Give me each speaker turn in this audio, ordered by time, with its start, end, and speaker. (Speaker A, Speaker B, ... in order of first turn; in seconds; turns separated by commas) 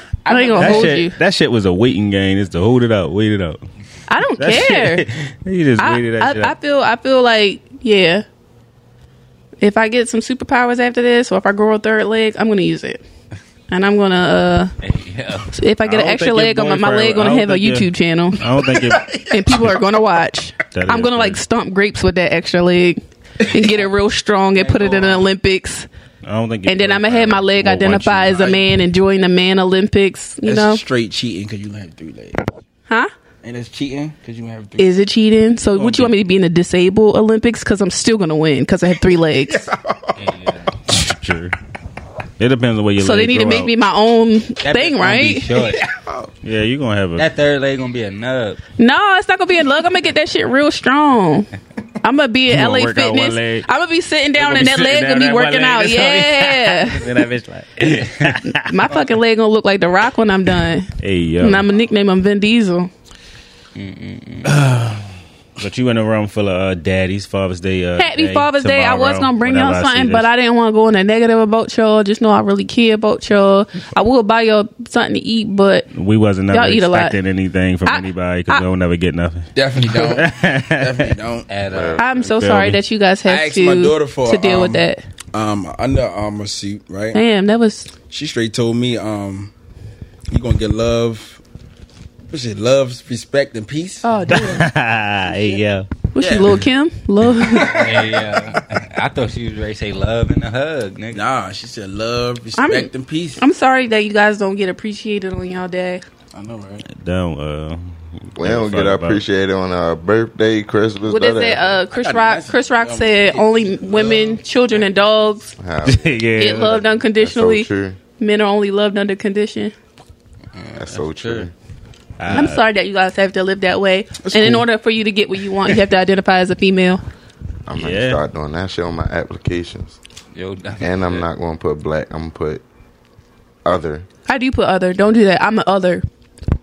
Speaker A: 0.2-0.9, Speaker B: 0.2-1.2, Speaker C: 0.6-3.6, Speaker B: 4.1-5.0, Speaker C: 4.4-6.5, Speaker B: 5.8-8.2, Speaker B: 9.6-13.0, Speaker B: 13.7-14.7, Speaker D: 14.8-15.5, Speaker B: 15.5-18.4, Speaker C: 15.8-19.6, Speaker A: 18.6-20.0, Speaker B: 19.3-25.9, Speaker C: 20.7-21.4, Speaker A: 23.4-23.9, Speaker A: 24.5-25.3, Speaker C: 26.2-28.5, Speaker B: 26.6-30.8, Speaker A: 28.3-28.6, Speaker A: 30.4-32.5, Speaker A: 33.4-35.0, Speaker B: 34.8-39.7, Speaker A: 35.7-36.1, Speaker A: 39.5-40.2, Speaker D: 40.2-40.7, Speaker C: 40.9-41.5, Speaker C: 42.4-43.7, Speaker B: 43.0-45.5, Speaker D: 44.6-45.9, Speaker A: 45.6-46.3, Speaker C: 46.4-47.3, Speaker D: 47.2-48.6, Speaker B: 48.8-51.5, Speaker B: 52.0-57.1, Speaker C: 52.5-53.7, Speaker C: 54.4-58.8, Speaker B: 58.5-62.9, Speaker C: 61.0-61.7, Speaker D: 63.7-64.5, Speaker C: 64.5-70.3, Speaker B: 68.0-75.9, Speaker C: 75.9-81.1, Speaker B: 76.5-77.2, Speaker B: 77.8-78.7, Speaker A: 79.5-81.5, Speaker D: 81.5-82.0, Speaker E: 81.7-82.4, Speaker B: 82.0-85.0, Speaker C: 82.2-82.8, Speaker A: 83.2-87.2, Speaker B: 87.1-87.9, Speaker A: 88.1-89.5, Speaker A: 90.3-91.4, Speaker A: 92.3-94.1, Speaker B: 94.0-94.7, Speaker C: 94.3-95.8, Speaker A: 95.3-95.6, Speaker B: 96.1-97.9, Speaker A: 96.2-96.6, Speaker A: 97.4-98.4, Speaker D: 97.7-101.2, Speaker A: 101.1-103.4, Speaker B: 102.6-106.0, Speaker A: 106.3-106.9, Speaker C: 106.9-107.8, Speaker C: 108.3-109.2, Speaker E: 108.4-111.8, Speaker B: 111.1-115.5, Speaker A: 111.9-114.4, Speaker E: 115.6-118.0, Speaker C: 115.8-116.8, Speaker B: 116.3-117.7, Speaker B: 118.2-119.7, Speaker D: 120.5-121.5, Speaker E: 120.8-121.5, Speaker C: 122.2-122.6, Speaker B: 122.3-127.0, Speaker A: 124.2-124.7, Speaker E: 127.7-130.0, Speaker C: 127.8-128.2, Speaker D: 130.3-131.2, Speaker E: 130.8-132.6, Speaker E: 133.6-134.1, Speaker B: 134.3-136.0